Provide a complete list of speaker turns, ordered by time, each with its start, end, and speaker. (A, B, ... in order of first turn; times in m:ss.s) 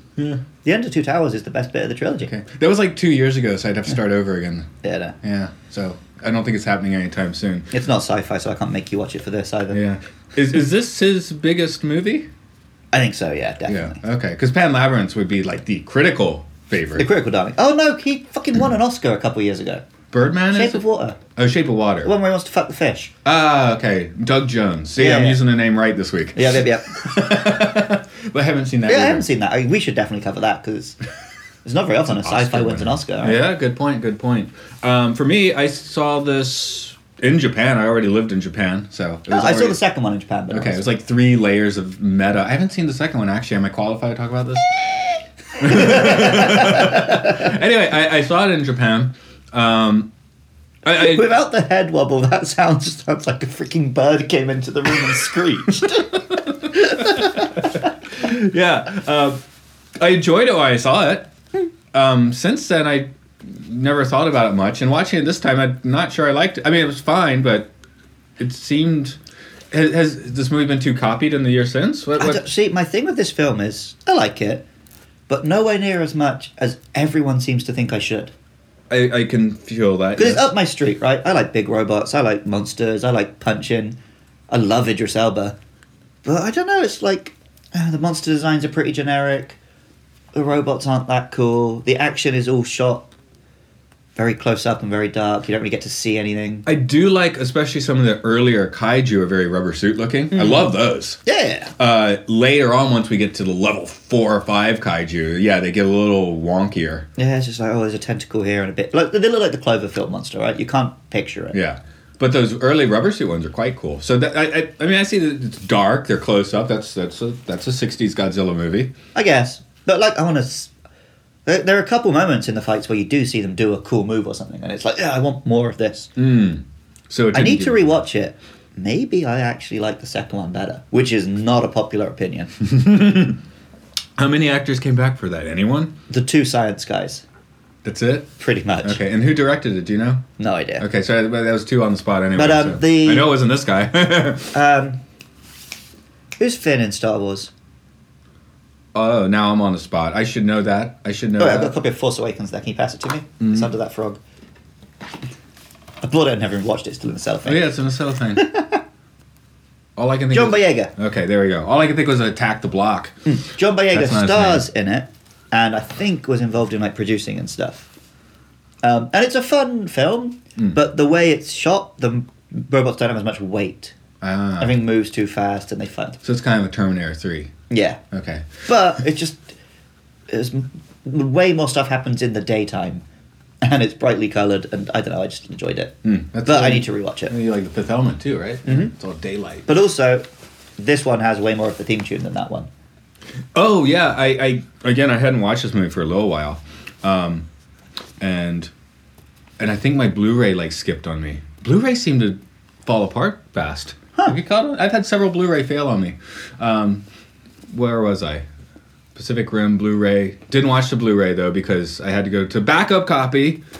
0:00.6-0:02.3 A
0:02.3-0:04.7 B
0:04.8-0:05.1 A
0:05.2-0:07.7 B
0:07.7-0:09.8 A
0:09.7-0:12.3 B
0:12.9-0:14.0 A
0:13.7-0:17.1 B
0:16.9-0:19.8 A
0:20.1-0:22.1 B
0:20.5-0:21.2 A
0:22.0-0:23.1 A
0:23.2-0:29.2 B
0:25.0-0:25.4 A
0:26.4-0:27.3 A
0:28.8-0:31.0 A
0:31.6-0:33.4 A
0:32.2-0:39.8 B
0:39.3-0:40.8 A
0:40.5-0:45.0 B
0:45.6-0:50.1 B
0:45.6-0:47.5 A
0:50.8-0:51.3 B
0:50.9-0:56.1 A
0:56.0-0:59.4 B
0:56.7-0:57.5 A
1:00.0-1:01.3 B
1:01.9-1:07.7 B
1:08.4-1:09.2 B
1:09.7-1:12.4 B
1:12.2-1:14.6 A
1:15.3-1:18.3 A
1:18.9-1:20.5 B
1:20.2-1:24.0 A
1:24.5-1:25.6 A
1:26.2-1:29.6 A
1:30.3-1:33.1 A
1:34.2-1:36.7 A
1:36.6-1:41.2 B
1:40.3-1:40.7 A
1:41.2-1:41.7 A
1:41.8-1:47.1 B
1:47.2-1:51.6 A
1:51.5-1:58.9 B
1:59.1-2:00.7 A
2:01.4-2:06.1 A
2:06.2-2:08.0 B
2:07.3-2:12.5 A
2:12.7-2:13.4 B
2:14.2-2:15.9 B
2:16.1-2:17.2 A
2:17.8-2:20.3 B
2:18.4-2:19.0 A
2:20.4-2:20.8 A
2:20.8-2:24.5 B
2:22.3-2:23.3 A
2:24.5-2:25.0 A
2:26.4-2:27.5 A
2:28.9-2:31.7 B
2:31.4-2:34.2 A
2:33.4-2:33.7 B
2:36.0-2:37.7 A
2:37.4-2:38.5 B
2:38.4-2:38.8 A
2:40.0-2:43.2 B
2:40.3-2:40.9 A
2:43.2-2:47.9 A
2:43.9-2:44.6 B
2:48.8-2:54.0 A
2:54.2-2:54.8 B
2:54.6-2:56.2 A
2:56.2-2:57.5 B
2:57.7-2:58.0 A
2:58.1-2:58.6 B
2:58.6-2:59.5 A
3:00.3-3:03.0 A
3:03.6-3:05.9 A
3:06.0-3:09.7 B
3:06.4-3:07.3 A
3:08.6-3:08.9 A
3:09.7-3:10.3 A
3:10.8-3:12.7 A
3:13.5-3:17.4 B
3:18.2-3:18.7 B
3:19.6-3:27.0 B
3:27.7-3:28.4 B
3:29.1-3:33.6 B